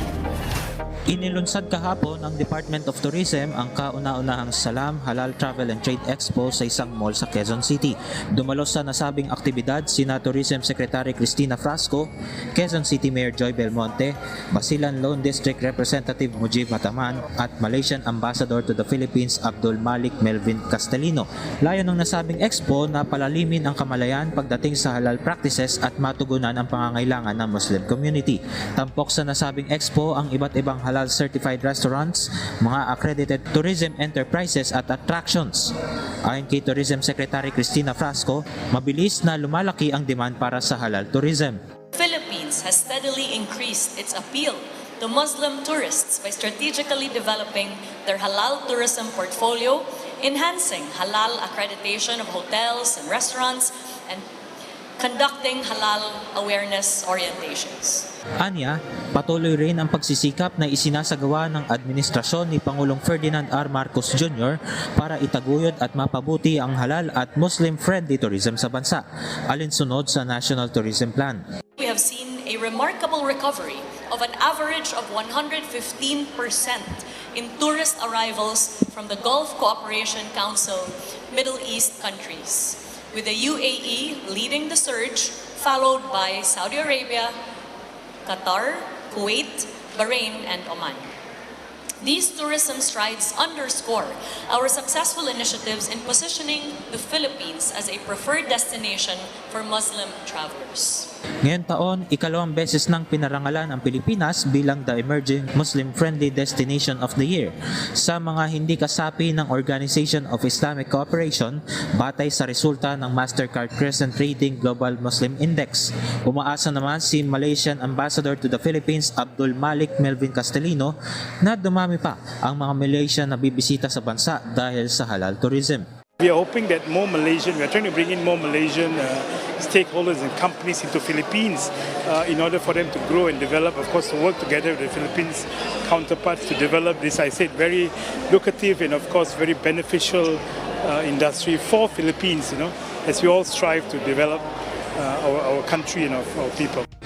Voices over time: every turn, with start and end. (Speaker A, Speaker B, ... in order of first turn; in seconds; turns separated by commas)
Speaker A: 1.1-35.7, Speaker A: 36.2-41.6, Speaker B: 41.9-54.2, Speaker B: 55.0-58.1, Speaker A: 58.4-71.4, Speaker B: 71.8-87.3, Speaker B: 88.2-91.1, Speaker B: 92.0-101.1, Speaker A: 101.4-125.8, Speaker C: 126.2-144.4, Speaker C: 145.0-146.8